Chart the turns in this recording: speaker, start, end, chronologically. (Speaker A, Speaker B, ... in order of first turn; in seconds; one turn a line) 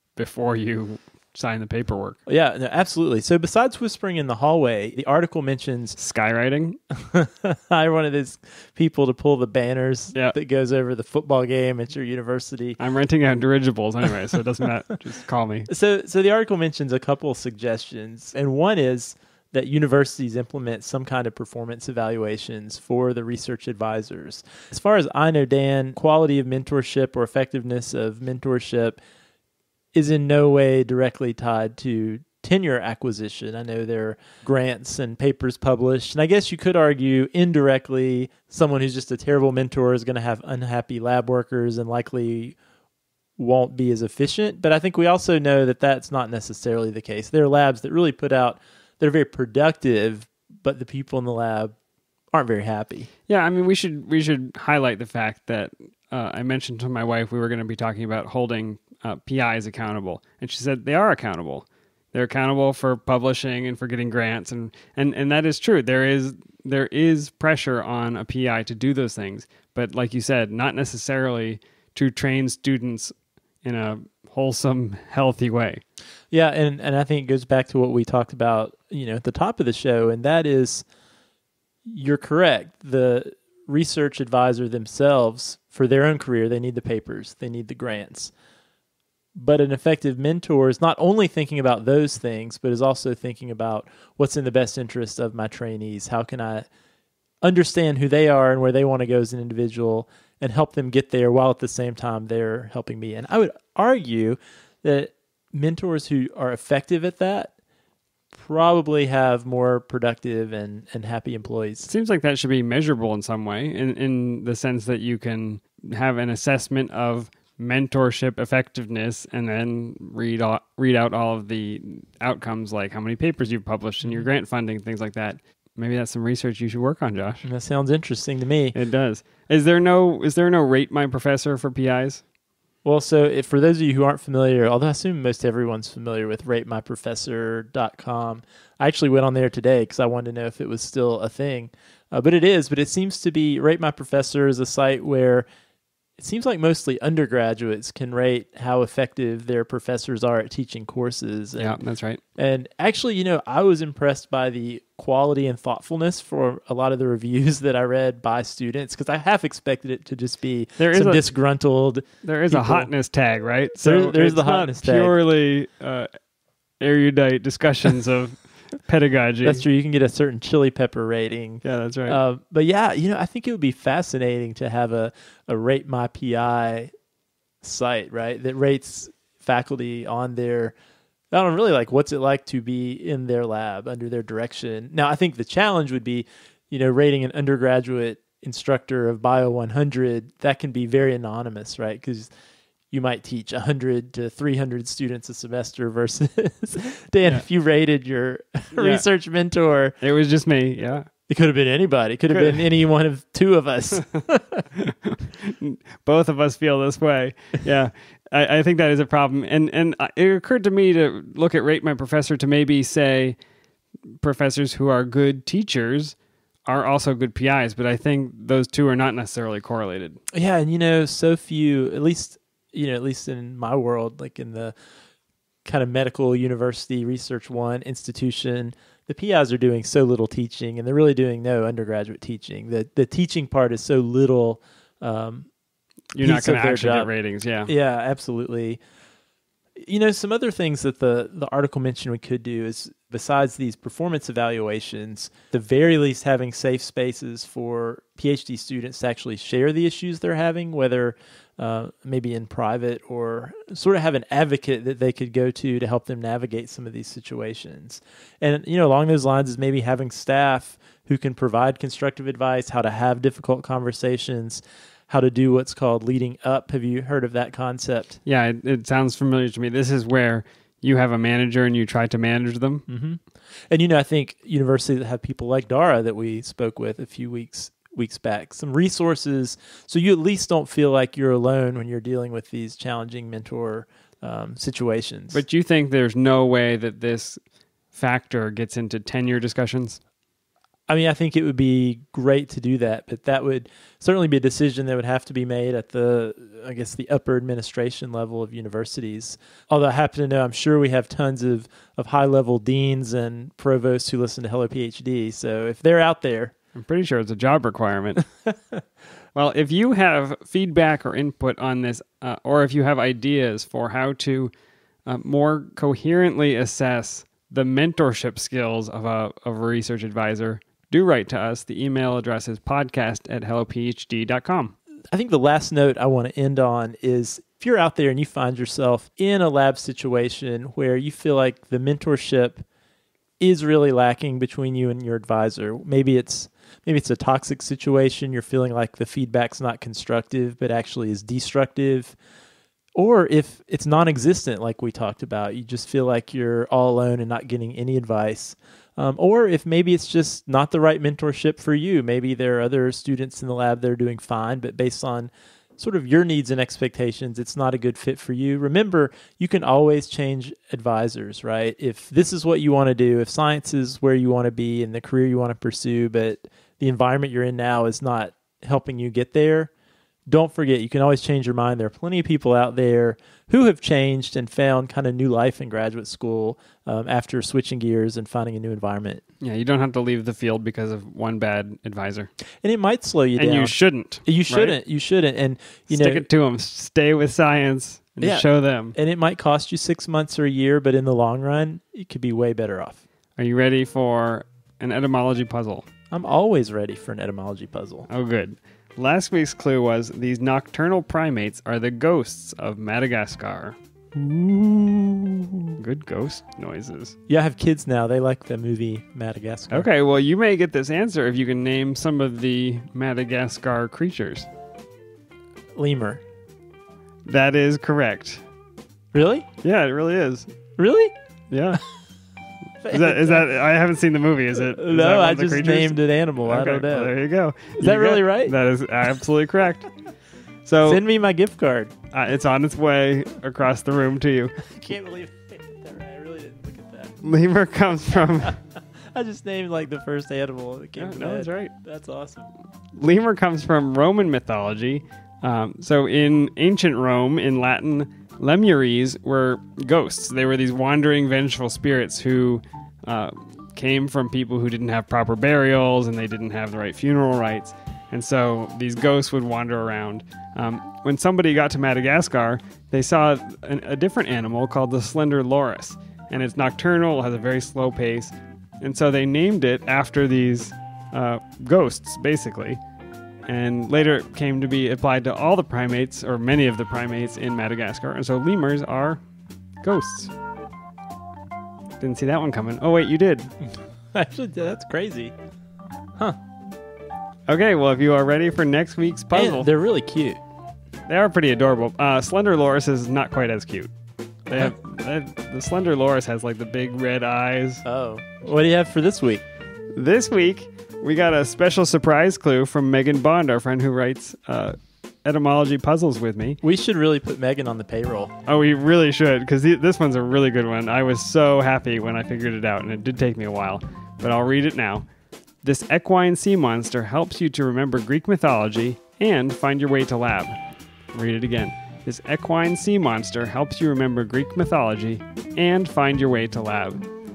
Speaker A: 0.2-2.2
Speaker B: 2.3-6.0
Speaker A: 6.0-6.8
Speaker B: 7.0-12.8
Speaker A: 12.8-15.7
Speaker B: 15.7-29.0
Speaker B: 29.9-42.6
Speaker B: 43.4-51.7
Speaker B: 52.3-53.1
Speaker A: 53.3-75.8
Speaker B: 76.3-80.8
Speaker B: 81.8-88.3
Speaker B: 89.4-96.7
Speaker B: 97.4-107.5
Speaker B: 108.3-111.9
Speaker A: 111.9-127.5
Speaker B: 127.4-128.8
Speaker A: 128.7-132.2
Speaker B: 132.8-145.5
Speaker B: 146.2-151.8
Speaker A: 151.6-152.2
Speaker B: 152.4-162.9
Speaker A: 160.8-161.2
Speaker A: 162.2-166.1
Speaker B: 163.8-165.2
Speaker A: 166.8-169.7
Speaker B: 169.4-176.9
Speaker A: 171.6-172.2
Speaker B: 177.6-180.7
Speaker B: 181.3-192.3
Speaker B: 192.9-200.0
Speaker A: 198.8-199.1
Speaker A: 200.0-201.1
Speaker B: 201.3-204.7
Speaker A: 202.3-202.6
Speaker A: 204.8-213.4
Speaker A: 214.2-220.2
Speaker B: 220.3-224.8
Speaker B: 225.7-235.5
Speaker A: 236.1-237.7
Speaker B: 236.2-237.1
Speaker B: 237.7-238.8
Speaker B: 239.8-268.2
Speaker A: 268.3-272.9
Speaker B: 272.9-285.4
Speaker A: 285.3-287.4
Speaker A: 287.9-290.0
Speaker B: 290.9-306.5
Speaker A: 306.8-308.2
Speaker B: 308.5-308.8
Speaker A: 309.4-314.5
Speaker A: 315.1-324.8
Speaker B: 325.1-332.6
Speaker B: 333.4-342.2
Speaker B: 343.0-369.7
Speaker B: 370.3-379.2
Speaker A: 379.4-382.3
Speaker B: 382.6-386.3
Speaker A: 383.4-384.8
Speaker A: 385.9-389.0
Speaker B: 388.2-393.0
Speaker A: 393.4-395.9
Speaker B: 396.1-398.1
Speaker A: 398.1-403.8
Speaker B: 404.1-405.7
Speaker A: 405.8-407.2
Speaker B: 407.3-409.9
Speaker A: 409.7-414.5
Speaker B: 415.8-416.2
Speaker A: 417.3-418.4
Speaker B: 419.1-419.5
Speaker A: 419.6-420.5
Speaker B: 420.8-421.1
Speaker A: 421.5-421.8
Speaker B: 422.8-423.4
Speaker A: 422.9-429.9
Speaker B: 424.6-427.1
Speaker B: 427.8-428.6
Speaker A: 430.7-431.0
Speaker B: 430.9-431.9
Speaker A: 432.1-434.6
Speaker B: 434.6-437.2
Speaker A: 437.2-438.6
Speaker B: 438.4-442.5
Speaker A: 441.0-441.7
Speaker A: 443.0-472.8
Speaker A: 473.5-479.2
Speaker A: 479.8-480.3
Speaker A: 482.0-483.5
Speaker B: 484.1-485.3
Speaker A: 487.5-489.7
Speaker B: 489.3-490.4
Speaker A: 491.1-493.9
Speaker A: 494.5-497.8
Speaker B: 497.9-499.4
Speaker A: 500.0-506.6
Speaker B: 506.6-508.3
Speaker A: 508.5-515.1
Speaker A: 515.6-520.6
Speaker A: 521.1-527.0